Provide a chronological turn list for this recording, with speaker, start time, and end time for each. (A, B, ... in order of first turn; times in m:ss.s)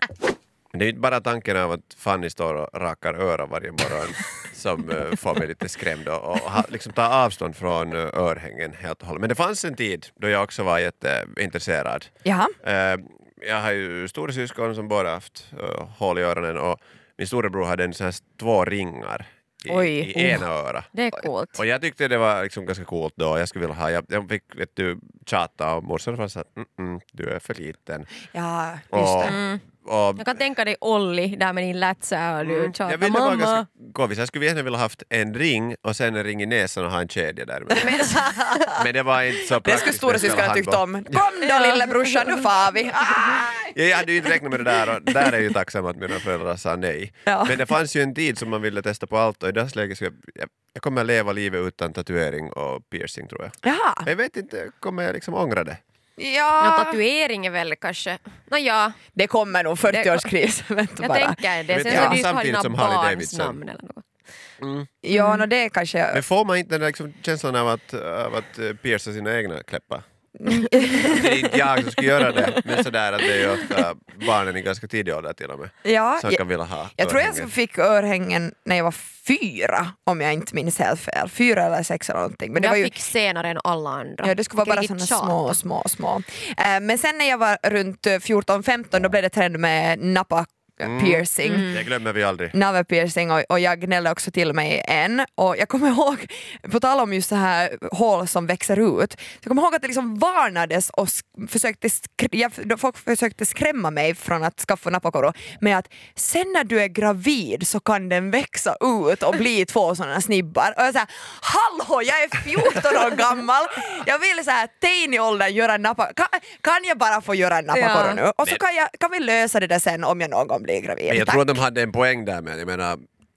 0:00.7-0:12.1 A
0:12.2-0:12.5 B
0:12.6-0:20.9 A
0:19.6-0:21.6 C
0:21.6-0:28.2 A
0:28.3-0:29.4 B
0:28.9-0:30.4 A
0:29.2-0:29.6 C
0:30.2-0:33.6 C
0:32.4-0:38.2 A
0:37.8-0:38.5 C
0:37.8-0:38.9 B
0:38.7-0:41.2 A
0:39.5-0:43.8 B
0:41.4-0:42.5 C
0:43.6-0:55.8 A
0:47.3-0:47.7 B
0:53.6-0:54.1 B
0:56.2-0:57.0 B
0:56.6-0:59.0 C
0:59.1-1:02.2 B
0:59.8-1:00.3 C
1:01.0-1:04.0 C
1:01.7-1:03.6 A
1:04.6-1:04.9 A
1:05.0-1:06.2 B
1:05.1-1:05.4 C
1:06.1-1:17.5 A
1:10.4-1:13.8 B
1:15.8-1:16.4 B
1:16.9-1:22.9 B
1:22.5-1:25.6 C
1:24.2-1:31.8 B
1:30.8-1:32.6 A
1:32.5-2:01.6 B
1:57.7-1:58.2 C
2:01.1-2:03.0 A